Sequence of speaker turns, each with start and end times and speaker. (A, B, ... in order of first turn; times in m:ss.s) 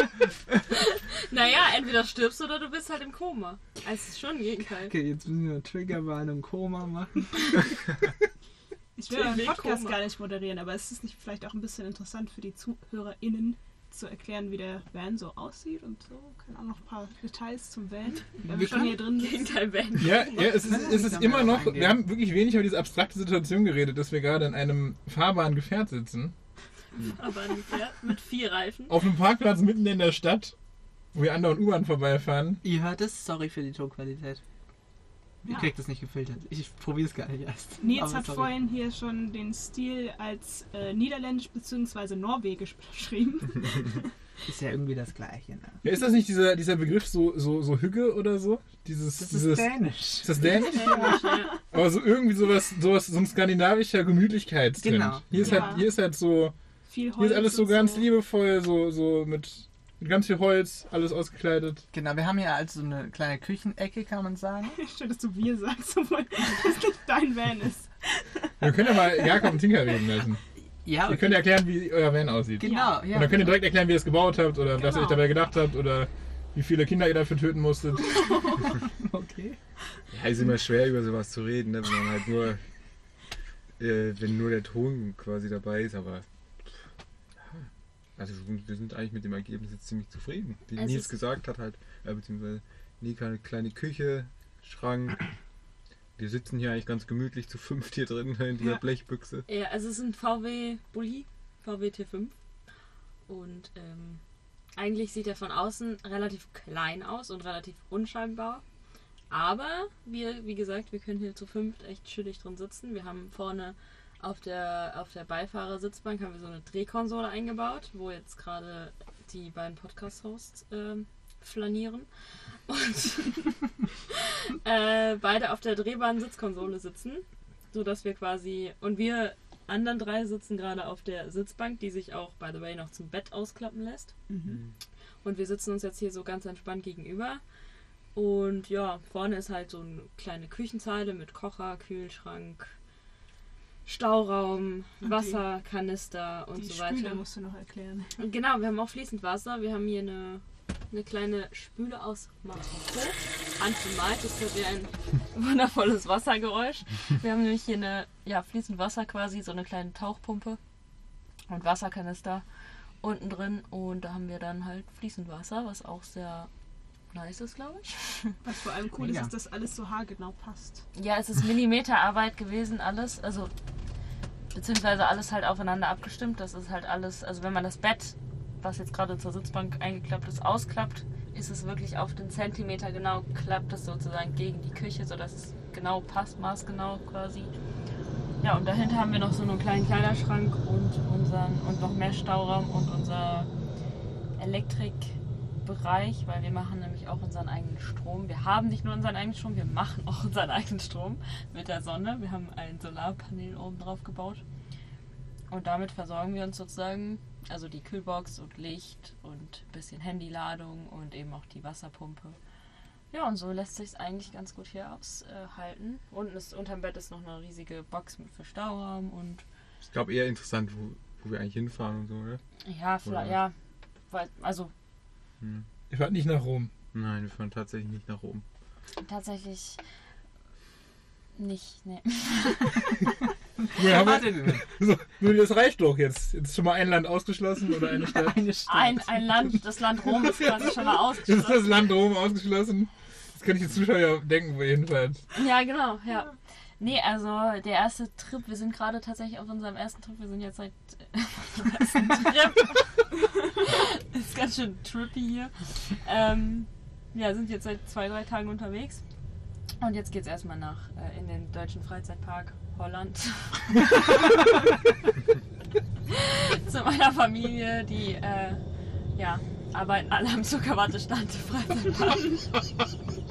0:00.7-0:04.9 A
0:04.8-0:07.5 B
0:09.0-0:19.6 C
0:09.1-0:10.0 A
0:18.4-0:19.0 B
0:19.1-0:20.7 A
0:20.0-0:26.3 D
0:20.6-0:22.0 B
0:27.0-0:29.0 A
0:28.9-0:30.6 D
0:31.1-0:32.6 D
0:32.6-0:34.4 B
0:35.4-0:38.5 B
0:35.5-0:35.7 C
0:37.8-0:44.0 C
0:44.5-0:45.8 B
0:45.8-0:51.2 D
0:49.2-0:51.3 B
0:50.8-0:51.6 A
0:51.7-0:56.5 D
0:54.8-0:55.7 B
0:55.4-0:55.9 C
0:56.9-0:58.1 C
0:57.2-1:01.8 D
1:01.9-1:04.8 B
1:04.8-1:08.5 C
1:08.6-1:10.4 D
1:10.8-1:11.5 B
1:11.0-1:18.6 D
1:12.6-1:13.6 B
1:12.6-1:13.1 C
1:14.8-1:15.3 C
1:18.1-1:18.6 C
1:19.0-1:19.6 B
1:20.1-1:22.6 E
1:23.8-1:26.8 E
1:28.2-1:35.2 E
1:30.8-1:31.1 A
1:36.2-1:39.5 E
1:39.5-1:42.3 A
1:43.3-1:44.2 A
1:44.8-1:48.6 A
1:49.3-2:02.1 A
2:02.7-2:03.6 A
2:04.1-2:14.1 A
2:14.3-2:14.6 C
2:14.5-2:14.7 E
2:15.2-2:17.4 A
2:18.2-2:22.7 A
2:23.9-2:27.2 A
2:25.0-2:25.4 C
2:26.6-2:28.1 C
2:28.2-2:40.6 A
2:41.5-2:42.4 A
2:43.0-2:46.5 A
2:47.1-2:48.3 A
2:48.4-2:50.8 C
2:49.0-2:49.3 B
2:51.0-2:53.5 A
2:54.5-3:07.5 A
3:08.4-3:13.5 A
3:14.4-3:24.4 A
3:25.5-3:32.4 A
3:33.1-3:39.4 A
3:39.8-3:42.4 E
3:42.6-3:43.5 A
3:43.0-3:43.4 E
3:44.1-3:44.7 A
3:45.9-3:46.7 D
3:46.9-3:48.4 E
3:49.0-3:49.8 A
3:51.4-3:53.0 A
3:53.6-3:54.6 B
3:53.8-3:58.4 D
3:58.0-3:59.6 B
3:58.7-4:01.8 A
4:01.2-4:05.2 D
4:05.4-4:19.0 A
4:19.8-4:24.4 A
4:26.1-4:28.6 A
4:29.2-4:32.4 A